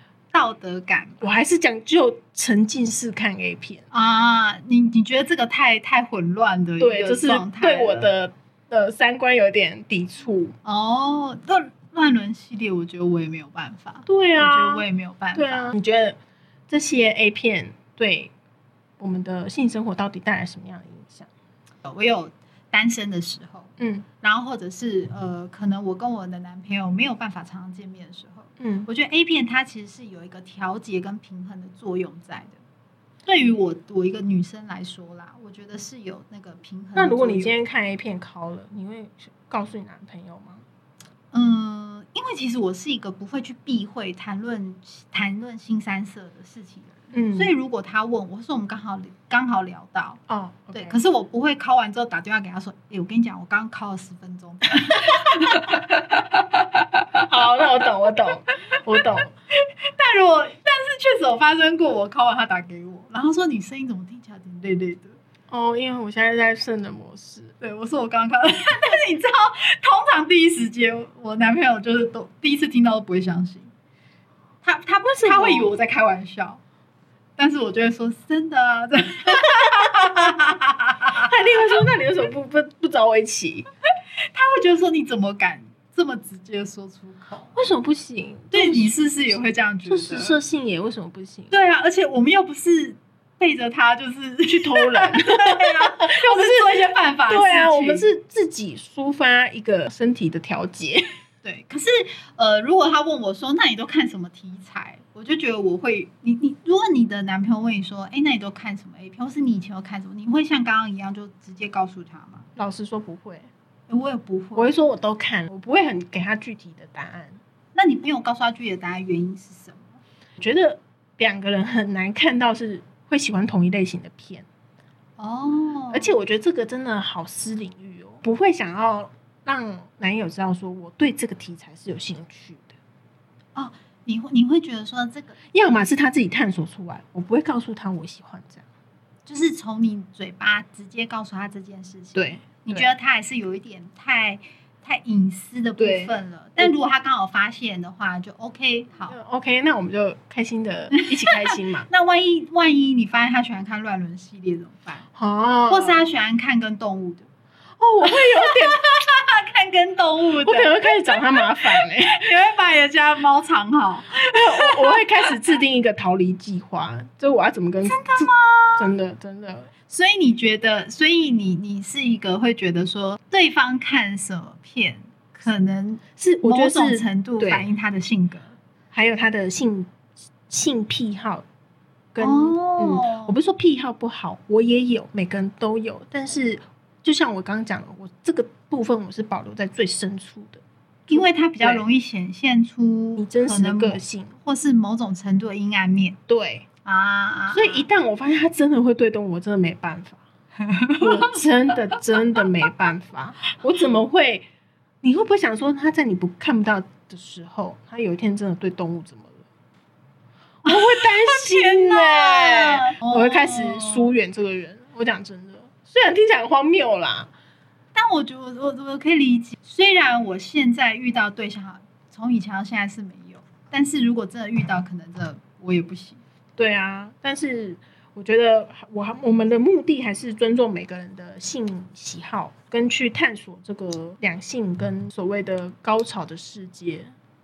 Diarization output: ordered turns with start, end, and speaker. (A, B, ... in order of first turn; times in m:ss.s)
0:00.3-0:01.2 A
0:01.2-0:03.8 B
0:03.9-0:08.1 A
0:06.8-0:10.5 B
0:10.6-0:15.7 A
0:14.1-0:16.2 B
0:16.7-0:18.3 B
0:19.0-0:21.3 B
0:21.8-0:32.6 A
0:23.8-0:24.1 B
0:28.6-0:28.9 B
0:33.3-0:37.5 A
0:37.0-0:40.6 B
0:41.3-0:50.2 A
0:47.1-0:47.5 B
0:50.3-0:51.0 B
0:50.7-0:56.2 A
0:57.2-0:59.3 B
0:59.8-1:05.2 A
1:05.5-1:07.5 B
1:07.6-1:13.7 A
1:14.6-1:16.6 A
1:15.1-1:15.7 B
1:17.4-1:21.3 A
1:21.2-1:23.7 B
1:24.3-1:27.6 A
1:27.6-1:28.9 B
1:28.5-1:30.4 A
1:29.9-1:31.5 B
1:31.5-1:38.1 A
1:34.5-1:41.0 B
1:41.4-1:52.5 A
1:52.6-1:53.5 B
1:53.9-1:54.7 A
1:54.6-1:57.4 B
1:57.8-2:00.0 A
2:00.4-2:04.5 B
2:05.2-2:06.2 A
2:05.9-2:12.8 B
2:13.6-2:15.4 A
2:15.5-2:18.6 B
2:19.3-2:29.2 A
2:22.2-2:22.9 B
2:25.8-2:26.7 B
2:29.1-2:31.9 B
2:30.9-2:35.0 A
2:35.2-2:36.1 B
2:35.7-2:37.3 A
2:37.8-2:38.8 B
2:38.0-2:45.0 A
2:40.4-2:42.3 B
2:44.2-2:49.7 B
2:47.8-2:48.9 A
2:49.9-2:58.6 A
2:56.2-2:57.7 B
2:58.9-2:59.9 B
3:00.5-3:01.4 B
3:02.1-3:11.8 B
3:02.2-3:03.4 A
3:11.1-3:16.2 A
3:13.2-3:14.4 B
3:16.3-3:16.7 B
3:16.8-3:17.8 A
3:17.5-3:20.2 B
3:20.7-3:21.4 A
3:21.0-3:24.5 B
3:25.0-3:29.4 B
3:30.6-3:37.3 B
3:30.7-3:34.1 A
3:38.0-3:46.2 A
3:46.6-3:57.1 B